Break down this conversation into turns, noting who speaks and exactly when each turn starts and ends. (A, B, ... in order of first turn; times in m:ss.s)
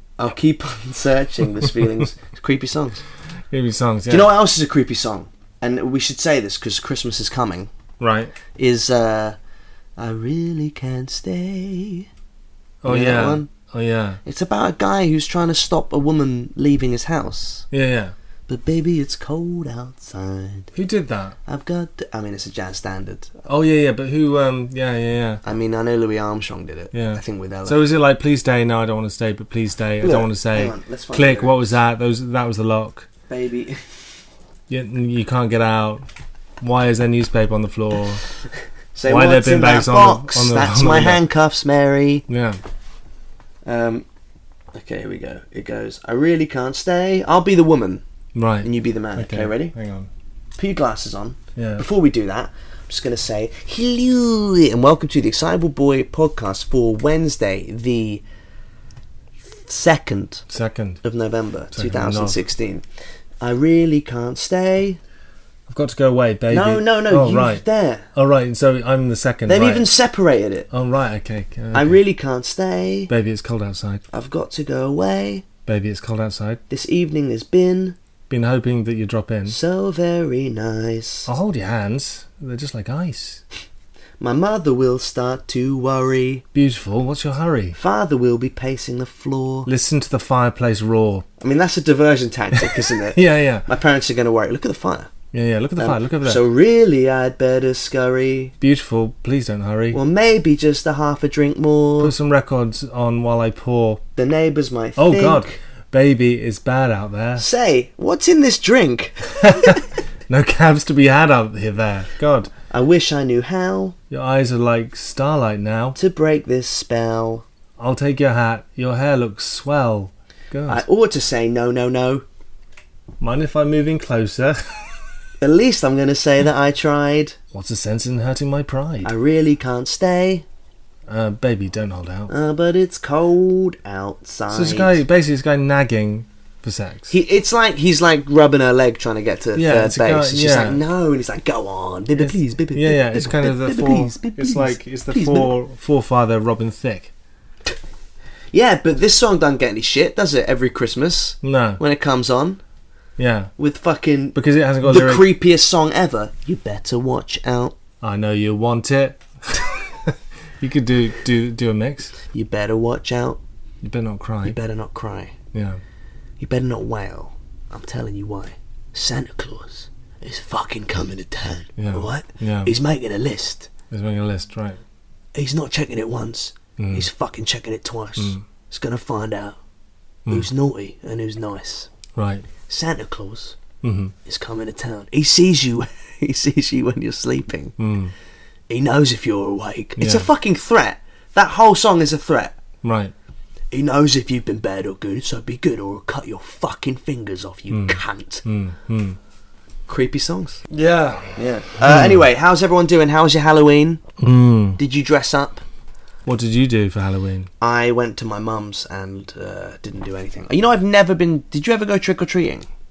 0:00.2-0:03.0 A
0:03.5-0:04.3 B
0:04.1-0:07.7 A
0:08.0-0:08.3 B
0:08.5-0:09.4 A
0:10.0-0:12.1 A
0:12.8-0:14.2 B
0:12.8-0:13.5 A
0:14.2-0:17.6 A
0:17.7-0:18.1 B
0:18.5-0:20.7 A
0:20.7-0:21.4 B
0:21.4-0:23.4 A
0:23.4-0:25.4 B
0:25.4-0:27.8 A
0:26.9-0:33.1 B
0:30.0-0:31.7 A
0:33.3-0:34.0 A
0:34.7-0:36.0 B
0:36.6-0:38.2 B
0:38.9-0:42.2 A
0:39.1-0:41.2 B
0:42.3-0:42.6 B
0:43.6-0:44.0 A
0:44.7-0:48.0 A
0:48.3-0:50.1 B
0:48.6-0:49.7 A
0:50.6-0:58.2 A
0:51.6-0:51.8 B
0:59.6-1:00.4 A
1:00.5-1:01.0 B
1:01.0-1:02.8 A
1:01.7-1:02.4 B
1:03.4-1:05.0 A
1:05.7-1:09.9 B
1:06.5-1:08.1 A
1:09.5-1:10.7 A
1:10.7-1:12.0 B
1:11.7-1:13.1 A
1:13.1-1:14.0 B
1:14.1-1:15.4 A
1:15.6-1:16.6 B
1:16.7-1:18.0 A
1:18.3-1:19.6 B
1:19.5-1:21.3 A
1:21.3-1:23.4 B
1:24.2-1:26.4 A
1:26.5-1:27.8 B
1:27.7-1:29.7 A
1:29.6-1:31.2 B
1:31.4-1:35.1 A
1:32.5-1:33.6 B
1:35.3-1:36.4 B
1:35.8-1:38.5 A
1:38.6-1:40.0 B
1:39.9-1:42.1 A
1:42.0-1:44.0 B
1:44.2-1:45.6 A
1:45.0-1:47.4 B
1:47.4-1:49.8 A
1:49.4-1:52.5 B
1:52.7-1:54.0 A
1:54.1-1:56.0 B
1:55.9-1:57.4 A
1:57.8-2:00.8 B
2:00.7-2:02.2 A
2:03.2-2:05.1 B
2:05.4-2:07.4 A
2:07.5-2:09.1 B
2:09.0-2:10.4 A
2:11.1-2:12.3 B
2:12.3-2:15.0 A
2:14.5-2:17.1 B
2:17.1-2:25.5 A
2:19.5-2:20.8 B
2:22.2-2:27.1 B
2:28.5-2:32.6 A
2:31.4-2:31.8 B
2:33.2-2:33.5 B
2:33.6-2:37.7 A
2:34.3-2:35.3 B
2:38.0-2:42.1 B
2:42.3-2:43.4 A
2:43.8-2:44.6 B
2:44.4-2:45.3 A
2:45.5-2:45.8 B
2:46.4-2:53.7 A
2:51.8-2:52.7 B
2:53.9-2:54.8 B
2:55.3-2:59.6 A
2:56.8-2:57.1 B
2:58.2-2:58.4 B
3:00.3-3:01.9 A
3:02.2-3:02.4 B
3:02.7-3:03.6 A
3:03.8-3:04.1 B
3:04.2-3:07.8 A
3:07.8-3:08.1 B
3:08.7-3:12.6 A
3:10.0-3:10.3 B
3:12.8-3:13.1 B
3:13.7-3:18.4 A
3:17.7-3:19.2 B
3:19.9-3:20.6 A
3:20.7-3:22.2 B
3:21.4-3:24.0 A
3:24.2-3:24.8 B
3:24.8-3:25.6 A
3:26.2-3:27.5 B
3:27.6-3:32.7 A